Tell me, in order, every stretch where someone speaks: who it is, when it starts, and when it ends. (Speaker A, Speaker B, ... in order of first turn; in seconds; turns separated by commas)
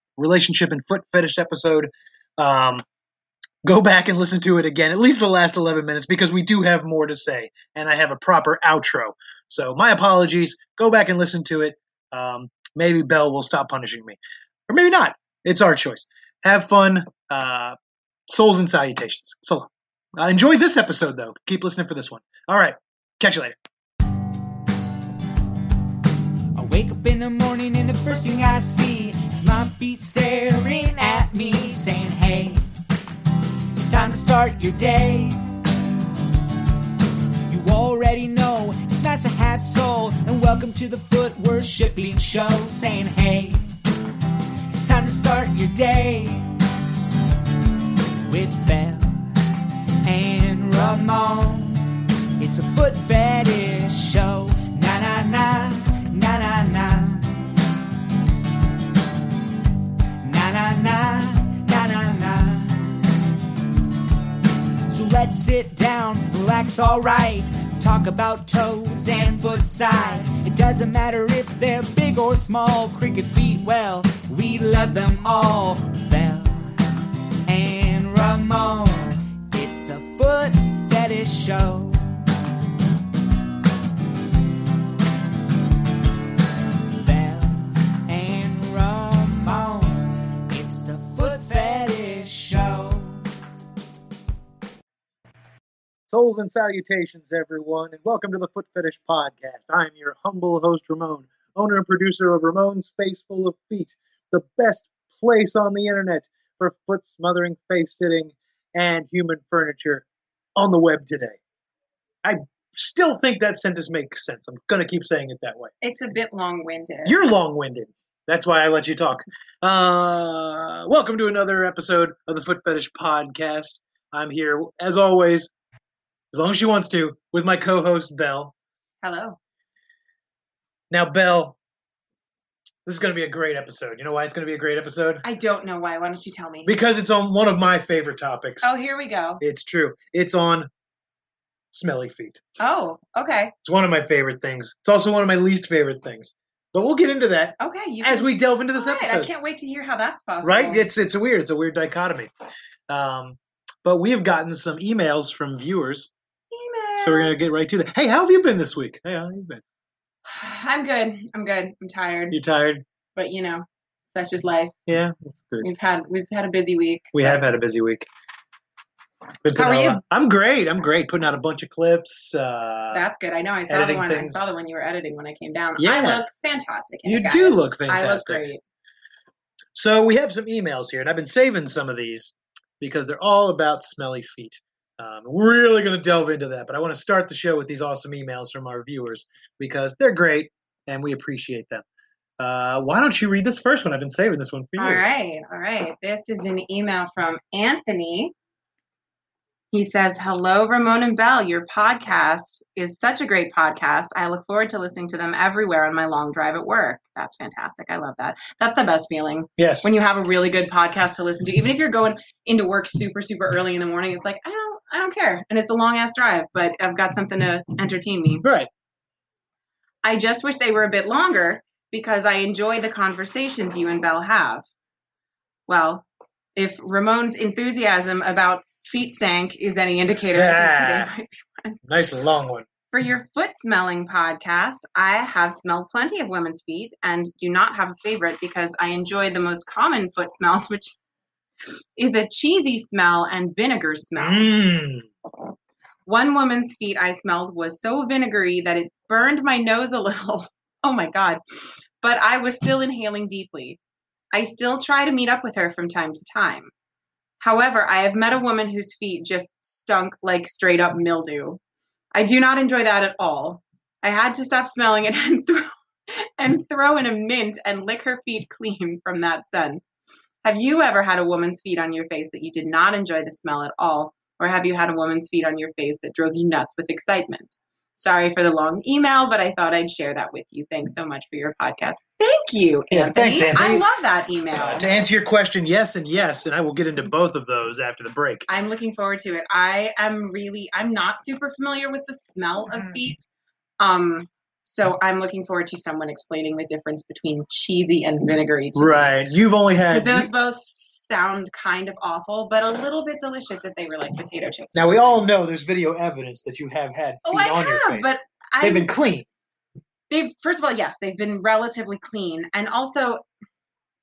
Speaker A: 0.2-2.8, Speaker A: 3.6-14.2, Speaker A: 14.7-17.8, Speaker A: 18.3-23.6, Speaker B: 26.5-32.6, Speaker B: 33.7-35.4, Speaker B: 37.5-43.7, Speaker B: 44.7-46.5, Speaker B: 48.3-49.4, Speaker B: 50.0-57.6, Speaker B: 60.2-63.2, Speaker B: 64.9-76.9, Speaker B: 77.5-82.2, Speaker B: 86.9-93.3, Speaker A: 96.1-110.0, Speaker A: 110.5-111.4, Speaker A: 112.2-115.7, Speaker C: 115.8-117.3, Speaker A: 117.0-125.5, Speaker A: 126.3-128.5, Speaker C: 129.0-129.4, Speaker A: 130.9-131.6, Speaker A: 132.8-135.2, Speaker C: 135.2-136.7, Speaker A: 136.6-138.7, Speaker C: 138.6-139.4, Speaker A: 139.4-140.7, Speaker A: 141.7-142.4, Speaker C: 142.6-143.5, Speaker A: 143.6-149.3, Speaker C: 147.6-150.8, Speaker A: 150.4-152.3, Speaker A: 152.9-156.1, Speaker C: 156.5-157.4, Speaker A: 157.0-159.6, Speaker C: 160.2-162.4, Speaker A: 162.3-162.8, Speaker C: 163.2-164.7, Speaker A: 164.9-165.7, Speaker C: 165.6-167.4, Speaker A: 167.1-168.1, Speaker A: 169.4-173.0, Speaker C: 169.6-170.0, Speaker C: 172.9-178.6, Speaker A: 173.7-174.4, Speaker A: 175.8-176.2, Speaker A: 177.0-178.4, Speaker A: 179.7-191.8, Speaker A: 192.4-195.0, Speaker C: 194.8-198.3, Speaker C: 199.7-218.4, Speaker A: 209.6-209.9, Speaker A: 218.4-218.7, Speaker C: 220.0-224.6, Speaker C: 225.7-231.8, Speaker A: 230.3-231.1, Speaker A: 231.9-232.6, Speaker C: 232.9-240.9, Speaker C: 242.0-244.5, Speaker A: 244.2-245.1, Speaker C: 246.1-253.8, Speaker C: 254.3-256.7, Speaker C: 257.4-261.6, Speaker C: 262.1-269.9, Speaker C: 270.4-284.9, Speaker A: 282.9-283.8, Speaker A: 284.6-288.5, Speaker C: 288.5-293.2, Speaker C: 293.8-299.2, Speaker A: 298.8-300.3, Speaker C: 299.9-305.2, Speaker A: 304.7-309.3, Speaker C: 307.2-308.9, Speaker C: 310.1-313.2